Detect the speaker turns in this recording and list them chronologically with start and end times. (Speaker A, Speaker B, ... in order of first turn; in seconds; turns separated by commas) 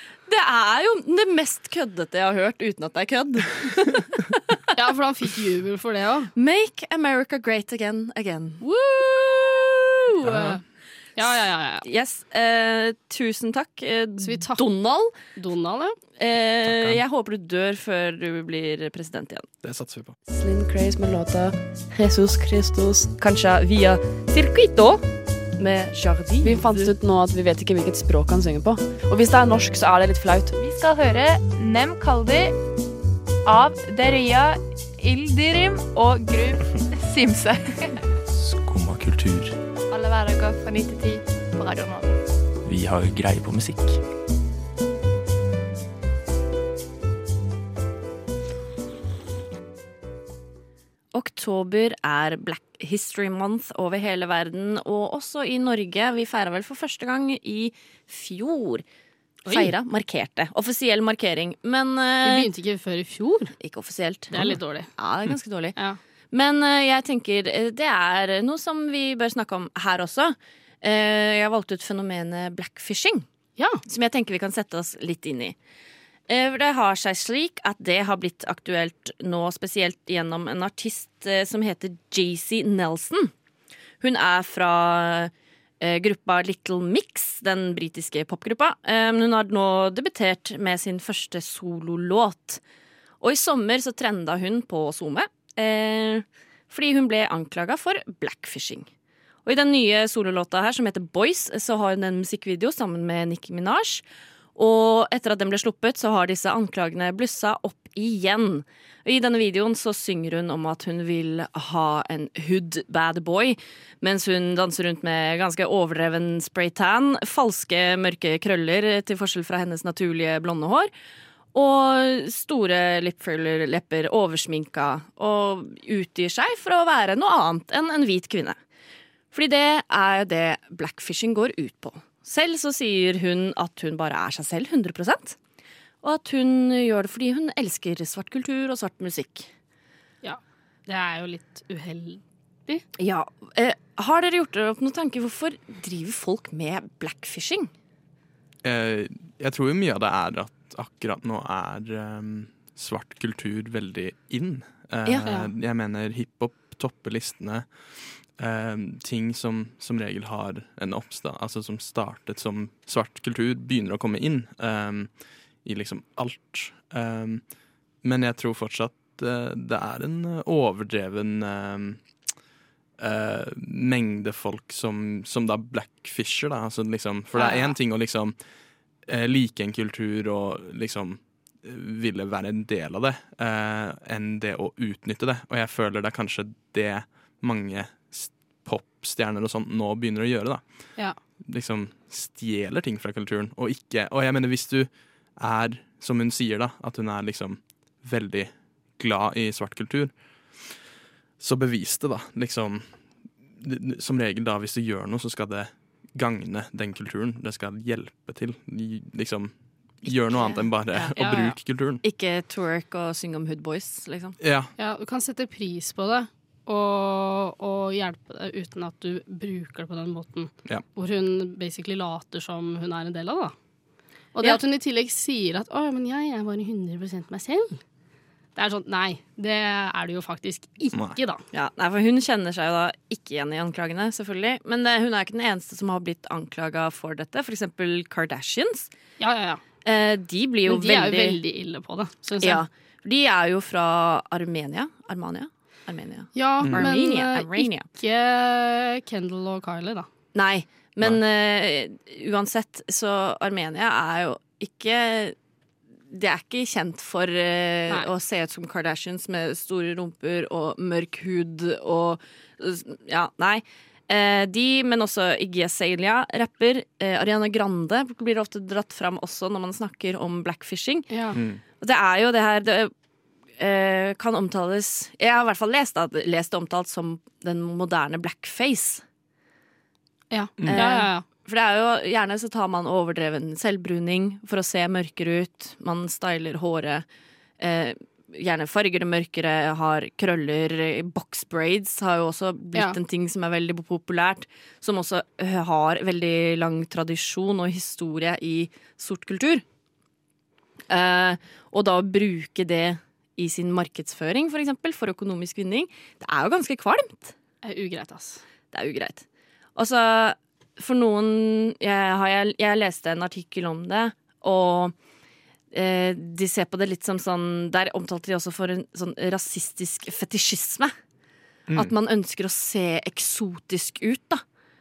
Speaker A: 0.3-4.8, Speaker B: 4.8-6.3, Speaker A: 6.3-10.1, Speaker B: 8.6-9.2, Speaker B: 10.1-10.6, Speaker C: 10.2-10.6, Speaker B: 11.2-11.8, Speaker A: 11.8-15.1, Speaker B: 14.2-14.6, Speaker B: 15.3-16.0, Speaker A: 16.2-19.5, Speaker C: 16.6-17.0, Speaker C: 19.6-20.1, Speaker D: 20.3-25.0, Speaker D: 25.6-30.6, Speaker E: 30.6-32.5, Speaker E: 33.5-37.6, Speaker F: 38.3-39.6, Speaker E: 39.9-42.1, Speaker F: 42.6-44.0, Speaker A: 51.1-58.8, Speaker B: 59.5-59.7, Speaker A: 59.5-62.5, Speaker B: 62.2-63.5, Speaker A: 63.6-65.8, Speaker B: 64.3-64.9, Speaker A: 66.3-73.3, Speaker B: 73.6-73.8, Speaker A: 73.9-75.5, Speaker A: 76.3-83.3, Speaker A: 84.0-92.6, Speaker A: 93.2-98.9, Speaker A: 99.5-104.0, Speaker A: 104.6-120.9, Speaker A: 121.5-128.6, Speaker A: 129.3-135.4, Speaker A: 136.0-139.5, Speaker B: 140.2-142.8, Speaker A: 143.0-147.7, Speaker C: 148.6-157.7, Speaker A: 155.1-155.5, Speaker C: 158.4-165.1, Speaker C: 165.6-167.4, Speaker C: 168.0-172.0, Speaker C: 173.0-178.3, Speaker C: 179.1-190.6, Speaker C: 191.4-200.1, Speaker C: 201.4-202.9, Speaker C: 203.6-212.0, Speaker A: 210.1-211.4, Speaker B: 211.2-211.5, Speaker A: 212.0-214.4, Speaker C: 214.4-214.7, Speaker B: 214.8-223.5, Speaker B: 224.3-227.8, Speaker B: 228.6-231.4, Speaker C: 230.9-231.2, Speaker A: 231.5-238.9, Speaker B: 239.2-239.6, Speaker A: 239.8-241.4, Speaker B: 240.7-242.6, Speaker A: 242.4-247.8, Speaker B: 246.3-250.1, Speaker A: 250.3-255.4, Speaker A: 256.1-271.1, Speaker B: 271.1-271.4, Speaker C: 271.4-271.6, Speaker A: 271.8-272.9, Speaker A: 273.6-279.0, Speaker B: 280.3-281.2, Speaker C: 280.6-280.9, Speaker A: 280.6-287.1, Speaker A: 287.6-299.6, Speaker A: 300.9-307.4, Speaker B: 307.6-308.4, Speaker A: 308.7-309.2, Speaker A: 309.8-314.9, Speaker A: 315.7-320.9, Speaker A: 321.8-324.4